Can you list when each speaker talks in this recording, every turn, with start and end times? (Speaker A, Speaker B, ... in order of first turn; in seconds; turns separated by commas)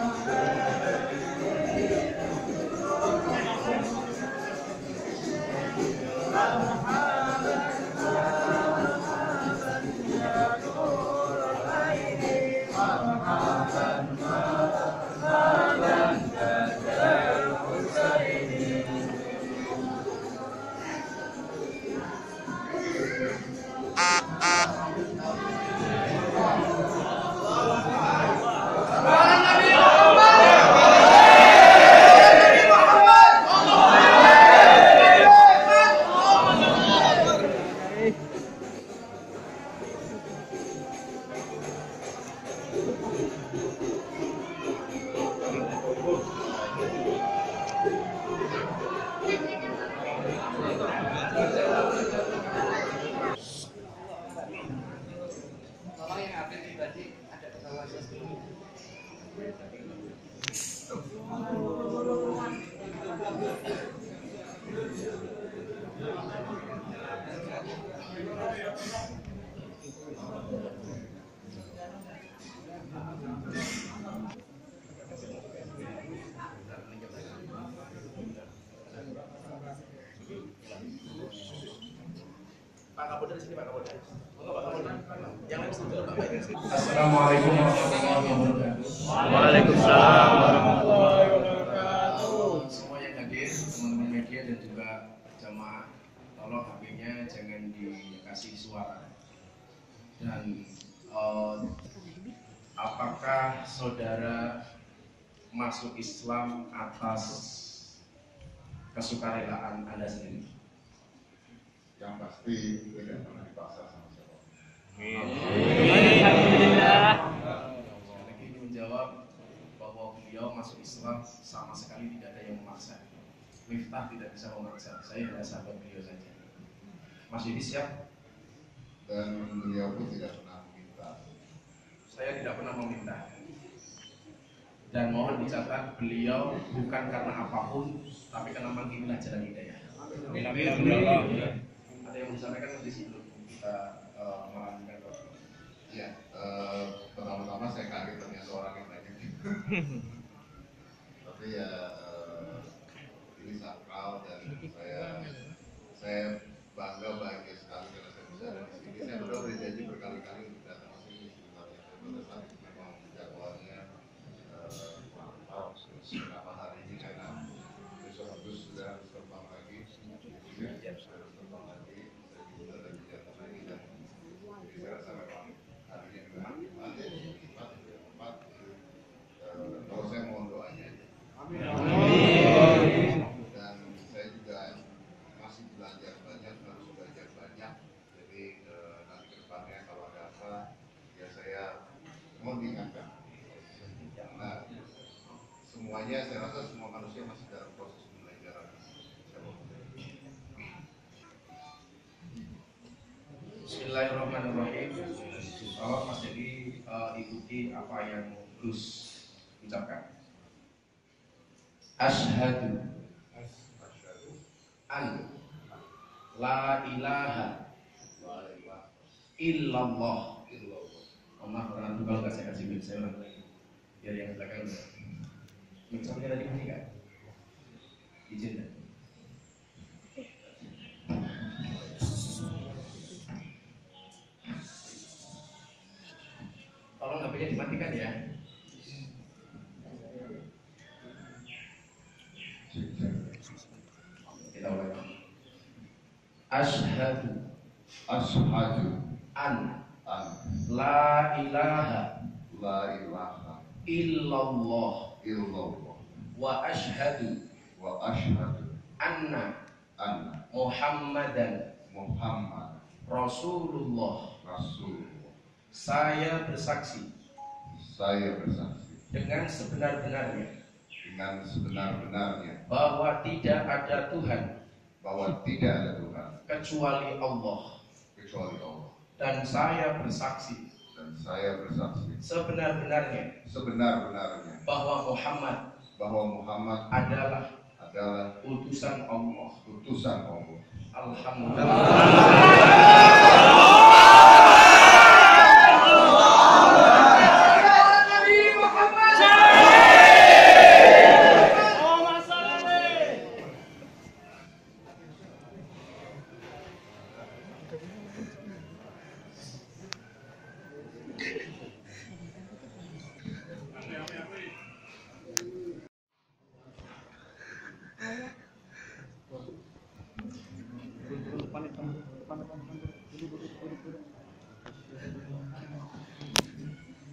Speaker A: 12.7-14.3, Speaker A: 15.2-18.9, Speaker B: 56.0-58.3, Speaker A: 83.0-86.6, Speaker C: 86.6-99.1, Speaker C: 100.2-101.7, Speaker C: 102.8-104.6, Speaker C: 105.5-107.9, Speaker C: 108.9-110.5, Speaker D: 112.0-114.5, Speaker C: 115.0-117.1, Speaker C: 118.0-119.1, Speaker C: 119.8-123.1, Speaker C: 123.7-126.4, Speaker C: 127.3-127.9, Speaker D: 129.1-131.2, Speaker C: 132.1-133.3, Speaker C: 134.9-141.5, Speaker C: 142.0-145.3, Speaker D: 145.9-150.0, Speaker D: 151.2-152.7, Speaker D: 153.3-163.8, Speaker D: 164.5-167.4, Speaker D: 168.0-178.8, Speaker D: 179.4-190.6, Speaker D: 191.1-191.8, Speaker D: 192.4-194.8, Speaker D: 195.6-200.0, Speaker C: 203.6-210.0, Speaker C: 212.0-212.9, Speaker D: 213.4-214.4, Speaker C: 214.9-215.3, Speaker C: 216.3-217.6, Speaker D: 218.2-218.9, Speaker C: 219.4-220.4, Speaker D: 220.5-221.1, Speaker C: 221.4-223.4, Speaker C: 224.0-224.9, Speaker C: 225.9-226.9, Speaker C: 228.3-228.8, Speaker C: 237.0-238.2, Speaker D: 242.7-243.3, Speaker C: 244.3-245.1, Speaker C: 246.5-247.4, Speaker D: 248.1-249.2, Speaker C: 249.3-249.8, Speaker D: 250.1-250.6, Speaker C: 250.7-252.1, Speaker D: 252.5-253.8, Speaker C: 253.9-255.1, Speaker D: 255.2-256.2, Speaker C: 256.3-257.4, Speaker D: 257.8-258.8, Speaker C: 259.0-259.5, Speaker D: 260.0-260.4, Speaker C: 260.5-261.7, Speaker D: 261.9-262.8, Speaker C: 263.1-264.3, Speaker D: 264.4-265.3, Speaker C: 265.7-267.1, Speaker D: 267.7-269.1, Speaker C: 269.1-270.5, Speaker D: 271.0-272.6, Speaker C: 272.7-274.5, Speaker D: 275.0-276.4, Speaker C: 276.5-277.7, Speaker D: 278.1-278.9, Speaker C: 279.2-280.7, Speaker D: 280.9-282.2, Speaker C: 282.2-283.3, Speaker D: 283.4-284.7, Speaker C: 284.6-285.6, Speaker D: 286.0-286.9, Speaker C: 286.9-287.5, Speaker D: 287.8-288.3, Speaker C: 288.4-289.6, Speaker D: 289.6-290.6, Speaker C: 290.9-292.9